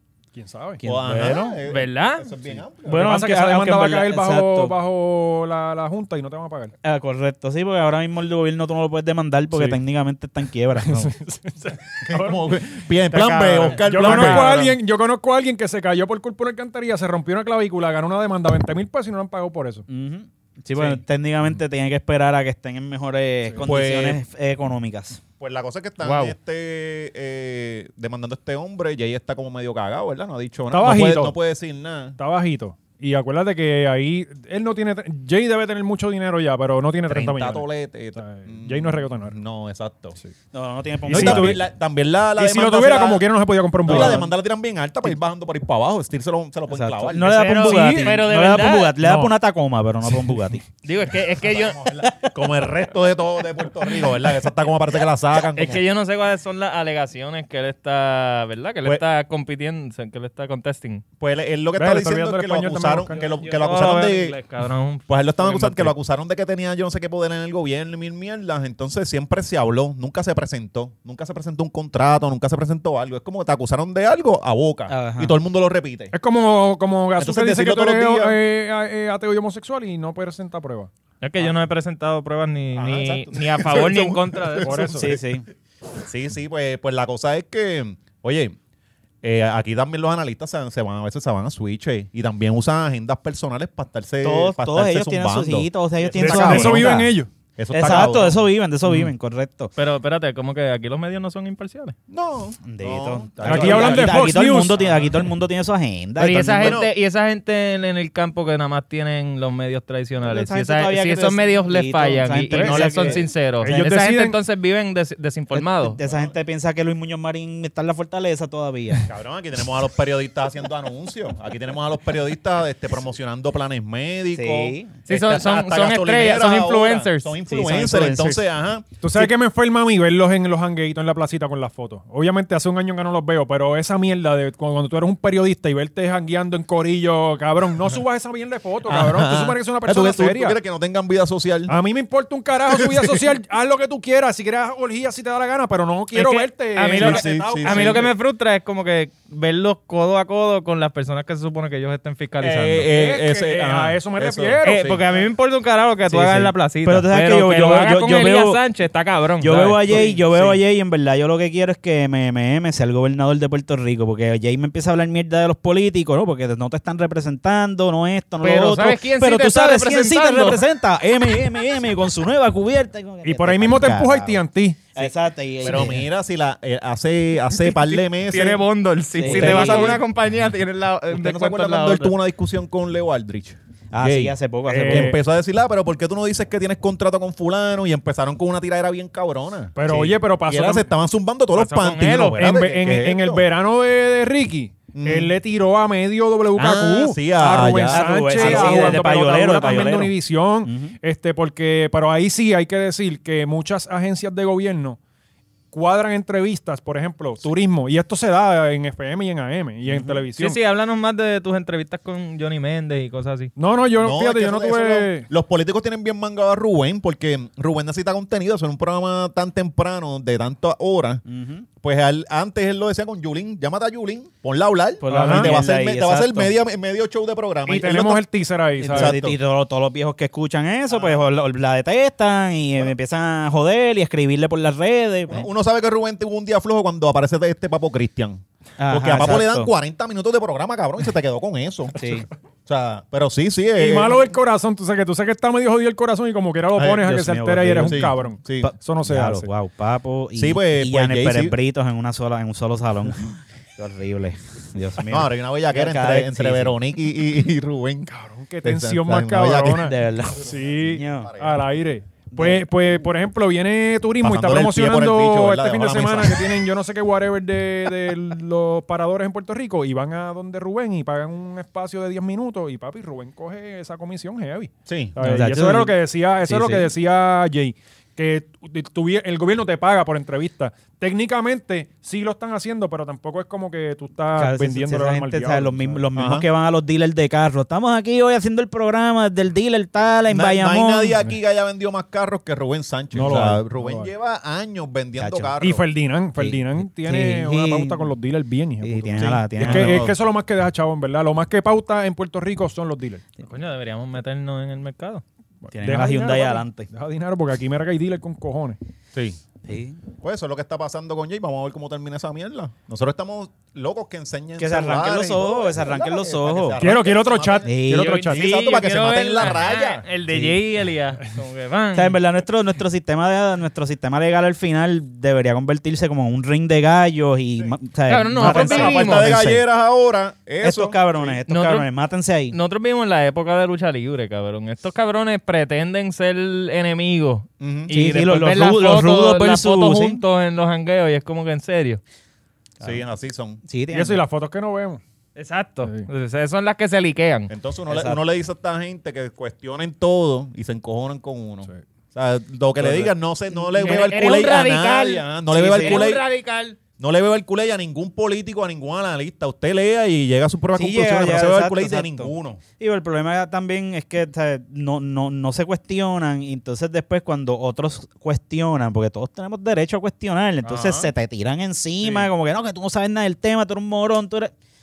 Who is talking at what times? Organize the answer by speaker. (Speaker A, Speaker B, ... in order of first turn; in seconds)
Speaker A: 0.3-0.8, 3.0-6.7, 9.5-9.8, 10.8-12.4, 13.7-19.8, 30.7-31.4, 32.2-39.4, 41.1-41.6, 42.4-44.2, 61.8-63.2, 76.1-80.9, 84.6-85.1, 96.2-97.3, 103.4-104.8, 113.6-114.4, 129.0-140.6, 141.7-148.1, 152.9-155.2, 173.2-174.9, 184.7-185.2, 189.8-190.9, 192.3-205.0, 205.7-210.6, 213.6-215.3, 225.1-225.5, 227.7-229.2, 243.8-249.5, 258.1-286.0, 293.1-294.1, 295.6-303.2, 305.6-308.8, 316.8-318.4, 343.9-345.0
Speaker B: 0.8-1.6, 2.8-4.7, 6.8-11.1, 14.1-14.5, 19.9-25.2, 40.5-41.6, 43.9-44.3, 46.7-50.6, 74.9-75.3, 85.0-85.4, 94.2-97.1, 97.7-99.7, 102.6-106.8, 110.2-113.3, 115.5-119.1, 124.3-124.9, 127.5-128.4, 156.1-158.6, 159.4-174.4, 174.9-176.1, 179.2-180.0, 183.9-185.1, 197.9-200.1, 200.6-200.9, 209.9-210.2, 221.3-221.7, 225.0-226.5, 228.8-235.5, 238.8-239.7, 241.9-242.3, 247.0-256.8, 259.8-261.3, 262.3-262.7, 275.2-276.9, 284.4-291.2, 295.2-295.5, 296.4-298.1, 298.8-300.1, 305.7-306.9, 309.6-310.0, 314.6-316.8, 317.6-318.2, 320.3-320.6, 321.9-329.6, 330.6-332.6, 337.9-340.2, 343.6-344.2, 347.9-348.2, 352.8-354.0, 355.5-356.0, 360.7-374.5
Speaker C: 0.8-3.1, 12.1-14.6, 23.6-24.2, 25.4-32.2, 37.1-40.1, 41.1-43.2, 43.9-48.2, 51.3-55.8, 61.2-64.4, 65.1-76.1, 77.2-78.4, 82.8-85.3, 86.0-88.5, 89.2-98.4, 102.1-104.9, 106.5-106.9, 112.6-113.2, 116.0-116.3, 119.0-129.2, 138.9-141.7, 142.7-143.2, 146.9-148.1, 152.4-155.0, 175.6-178.6, 179.3-180.0, 181.1-184.3, 184.9-193.4, 194.9-195.3, 196.6-199.1, 214.0-221.2, 221.8-228.2, 228.9-229.4, 235.3-241.9, 242.7-244.2, 246.8-247.0, 247.8-248.7, 250.4-251.6, 255.1-258.1, 258.6-259.9, 261.2-261.6, 264.2-266.5, 274.9-275.1, 286.1-286.4, 290.3-295.8, 299.1-300.1, 310.2-317.7, 318.2-320.1, 328.4-331.4, 337.6-337.9, 342.8-343.6, 347.5-356.2, 357.0-362.6, 370.6-371.1, 372.0-372.3
Speaker D: 1.6-2.3, 13.1-14.8, 26.0-26.4, 47.1-49.3, 50.8-51.8, 55.5-61.0, 63.1-65.9, 81.2-84.8, 99.8-101.9, 106.2-116.0, 125.1-127.3, 146.1-152.9, 154.6-160.6, 168.4-170.6, 177.7-182.1, 191.6-192.4, 210.4-213.5, 303.4-305.2, 317.9-322.2, 328.1-329.3, 331.5-331.9, 332.5-342.0, 345.4-347.5, 353.7-356.8